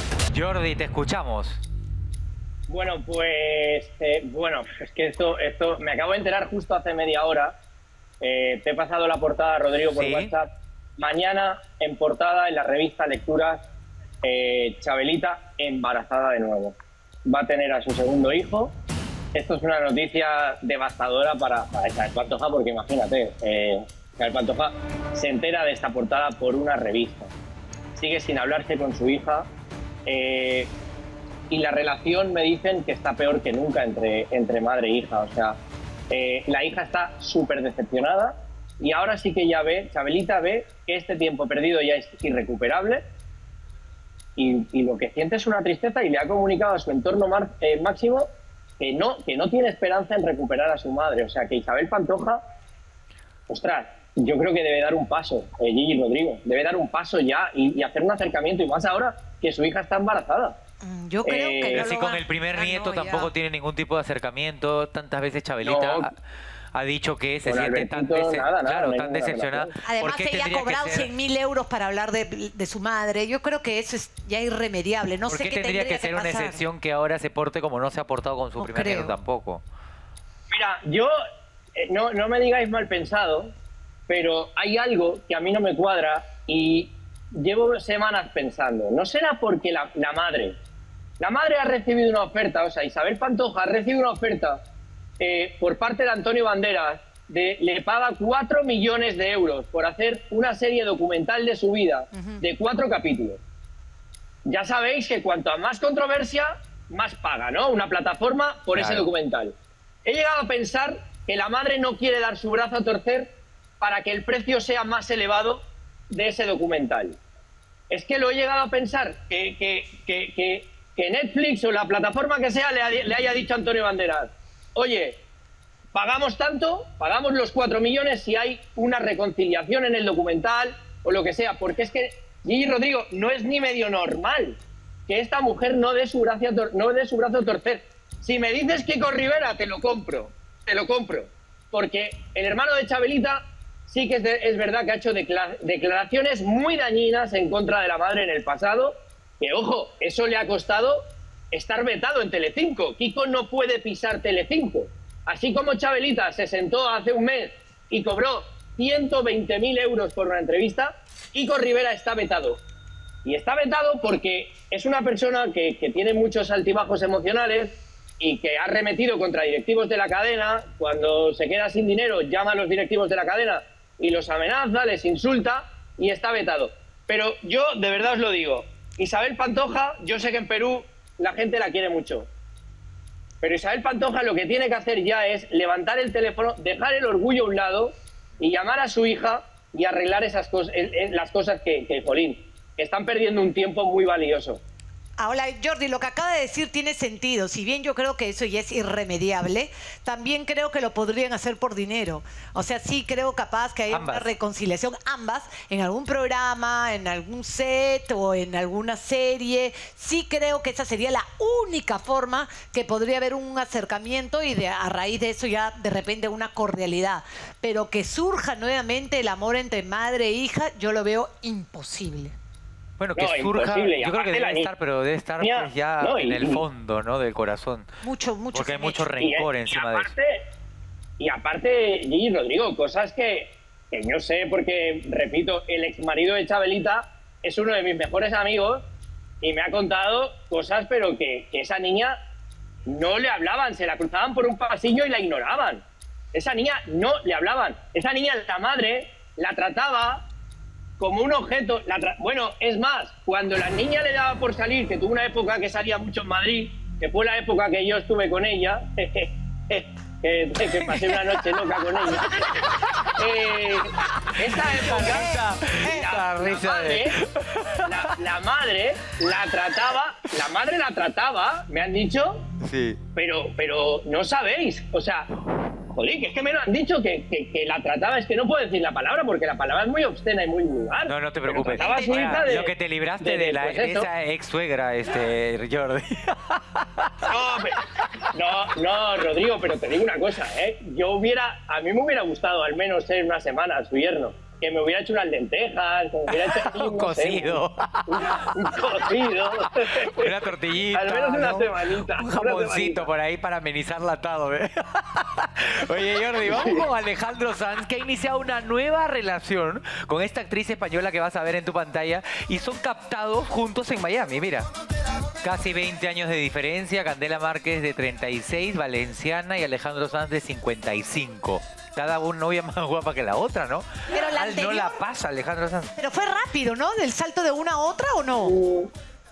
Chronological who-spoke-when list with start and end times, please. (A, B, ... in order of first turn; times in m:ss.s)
0:00.3-0:01.6 A
0:02.7-0:07.6 B
0:08.2-0:13.6 B
0:09.9-0:10.3 A
0:14.2-0:18.7 B
0:19.4-0:27.3 B
0:28.0-0:29.5 B
0:30.1-0:30.7 B
0:31.5-0:35.6 B
0:36.1-0:43.0 B
0:44.4-0:52.4 B
0:53.5-1:00.6 B
1:00.8-1:03.3 C
1:01.2-1:01.9 B
1:01.7-1:06.1 A
1:05.6-1:06.1 B
1:06.7-1:11.1 A
1:07.4-1:09.7 B
1:09.8-1:16.6 C
1:15.3-1:19.6 A
1:18.6-1:19.1 C
1:20.5-1:21.1 B
1:21.8-1:23.5 B
1:24.1-1:30.6 B
1:31.2-1:34.6 B
1:35.2-1:43.4 B
1:42.1-1:42.4 C
1:44.5-1:49.5 B
1:48.7-1:49.1 A
1:50.0-1:57.2 B
1:57.9-2:05.2 B
2:05.9-2:42.6 B
2:43.2-3:02.3 B
3:03.4-3:14.6 B
3:15.2-3:42.4 C
3:23.9-3:24.3 A
3:43.0-3:47.9 A
3:43.2-3:44.7 B
3:45.4-3:46.6 B
3:48.0-3:49.1 C
3:48.5-3:50.1 A
3:49.2-3:50.5 B
3:51.2-3:58.9 B
3:59.4-4:02.2 B
4:02.9-4:10.3 B
4:11.0-4:22.3 B
4:20.8-4:21.4 A
4:22.1-4:23.2 A
4:23.2-4:27.2 B
4:24.2-4:28.1 A
4:25.0-4:26.1 C
4:27.8-4:32.4 B
4:32.6-4:33.0 A
4:33.2-4:35.3 B
4:35.9-4:44.1 B
4:41.1-4:47.3 A
4:41.8-4:42.4 C
4:47.3-5:03.1 B
4:56.3-4:58.5 A
5:00.1-5:14.7 A
5:06.4-5:06.9 B
5:15.4-5:26.0 A
5:24.1-5:25.0 C
5:26.0-5:28.6 C
5:28.4-5:28.9 B